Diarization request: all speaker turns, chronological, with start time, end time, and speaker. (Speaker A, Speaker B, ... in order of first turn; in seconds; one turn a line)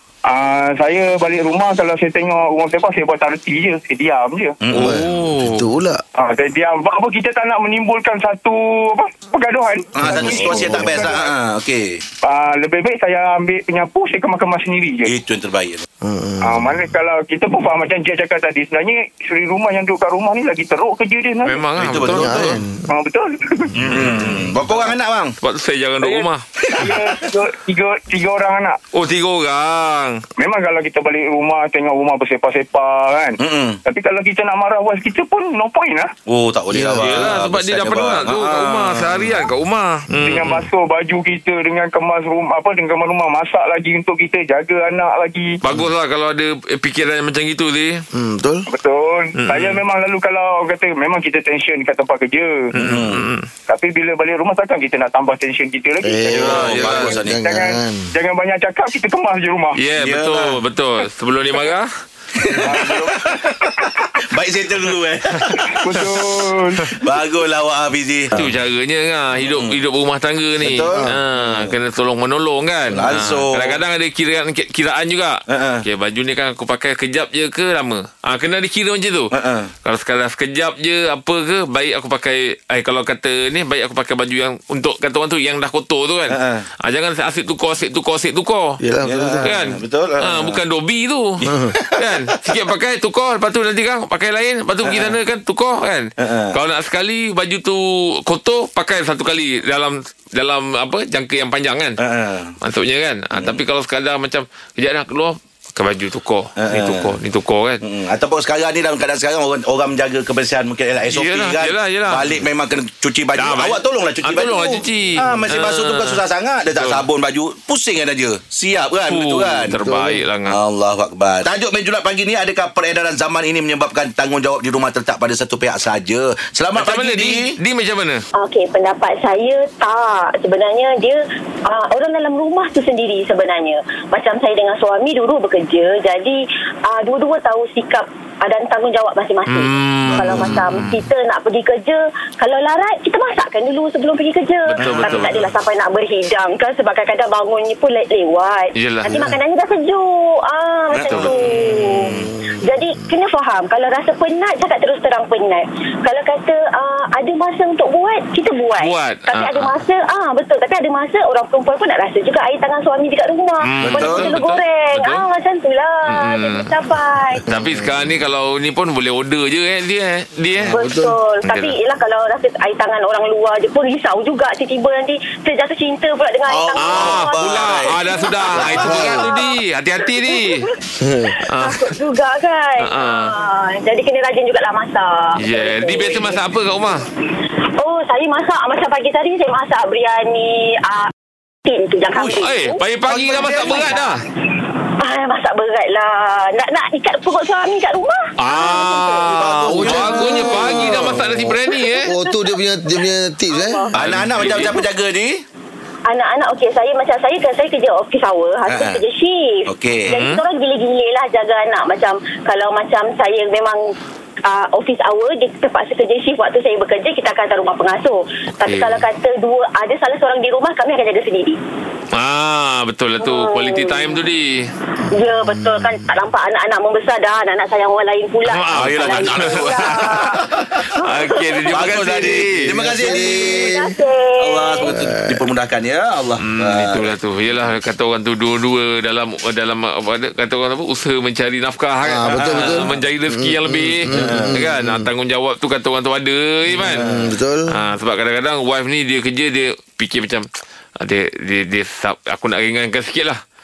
Speaker A: 0.3-4.6
Speaker B: 4.6-5.0
Speaker C: 4.7-5.7
Speaker D: 4.7-6.0
Speaker A: 6.2-11.3
Speaker B: 9.9-12.0
Speaker D: 10.0-11.1
Speaker A: 12.2-15.1
Speaker B: 15.1-15.8
Speaker D: 16.0-16.8
Speaker A: 16.4-21.6
Speaker C: 21.4-22.6
Speaker B: 21.7-22.6
Speaker D: 21.9-22.9
Speaker A: 22.9-23.8
Speaker B: 23.7-25.4
Speaker C: 23.8-24.5
Speaker C: 25.4-26.4
Speaker A: 26.0-28.8
Speaker B: 26.6-27.2
Speaker C: 28.9-30.2
Speaker A: 30.4-36.1
Speaker B: 33.4-33.8
Speaker B: 36.3-39.4
Speaker D: 36.7-37.3
Speaker C: 36.9-40.6
Speaker A: 40.2-45.6
Speaker C: 45.6-48.0
Speaker D: 48.1-48.7
Speaker A: 48.7-52.7
Speaker C: 49.4-49.8
Speaker C: 52.7-53.5
Speaker B: 52.8-53.3
Speaker A: 53.7-59.8
Speaker D: 56.0-58.1
Speaker B: 56.3-57.4
Speaker C: 56.4-57.1
Speaker C: 59.8-61.9
Speaker B: 60.0-60.6
Speaker B: 62.4-66.1
Speaker A: 62.5-63.6
Speaker A: 65.7-66.9
Speaker B: 66.9-68.5
Speaker C: 68.3-79.3
Speaker B: 69.4-69.8
Speaker B: 70.6-71.7
Speaker B: 72.9-73.8
Speaker B: 75.5-75.8
Speaker B: 79.3-79.7
Speaker C: 79.8-88.8
Speaker B: 86.3-86.7
Speaker D: 88.8-89.5
Speaker B: 89.0-90.6
Speaker C: 89.4-102.0
Speaker B: 91.4-92.3
Speaker D: 91.4-91.8
Speaker B: 94.8-95.2
Speaker B: 96.2-96.5
Speaker B: 102.0-102.5
Speaker C: 102.6-107.8
Speaker B: 103.3-103.6
Speaker B: 106.6-107.1
Speaker B: 107.8-127.5
Speaker C: 111.1-112.4
Speaker C: 113.3-117.0
Speaker C: 119.1-120.6
Speaker C: 126.7-128.2
Speaker E: 128.3-167.4
Speaker C: 139.4-141.0
Speaker B: 140.1-140.7
Speaker C: 144.7-145.5
Speaker B: 144.8-145.5
Speaker C: 148.8-149.3
Speaker B: 150.9-152.3
Speaker C: 151.0-152.2
Speaker C: 158.8-159.7
Speaker C: 163.6-165.2
Speaker B: 163.8-164.3
Speaker C: 166.1-166.7
Speaker C: 167.5-170.8
Speaker D: 167.5-168.1
Speaker D: 170.7-171.2
Speaker E: 170.7-179.6
Speaker C: 171.4-171.8
Speaker B: 176.5-178.0
Speaker C: 176.8-180.7
Speaker B: 178.5-179.2
Speaker D: 178.7-179.2
Speaker E: 180.2-180.8
Speaker D: 181.0-181.4
Speaker E: 181.3-186.4
Speaker C: 181.5-182.0
Speaker C: 182.8-183.3
Speaker C: 185.4-187.0
Speaker E: 187.8-191.1
Speaker E: 191.6-192.8
Speaker C: 192.2-194.2
Speaker B: 193.1-194.0
Speaker E: 193.3-194.1
Speaker E: 195.0-199.4
Speaker C: 198.4-202.1
Speaker B: 199.3-201.2
Speaker D: 199.8-203.9
Speaker E: 201.6-204.9
Speaker B: 203.9-205.4
Speaker C: 203.9-204.8
Speaker E: 206.1-213.9
Speaker B: 208.7-209.0
Speaker B: 209.7-210.2
Speaker C: 210.1-210.4
Speaker E: 214.4-221.6
Speaker C: 218.6-219.0
Speaker C: 222.1-224.7
Speaker E: 223.2-224.2
Speaker E: 225.1-230.4
Speaker C: 228.4-229.9
Speaker B: 228.7-230.9
Speaker E: 230.9-232.0
Speaker C: 231.0-232.7
Speaker B: 231.7-233.8
Speaker D: 232.6-233.9
Speaker E: 233.0-234.9
Speaker B: 234.4-237.1
Speaker D: 234.8-235.5
Speaker C: 236.4-247.1
Speaker D: 242.0-245.1
Speaker B: 242.3-242.9
Speaker B: 244.1-244.6
Speaker B: 246.7-247.3
Speaker D: 246.8-247.7
Speaker C: 247.7-250.5
Speaker C: 251.0-253.4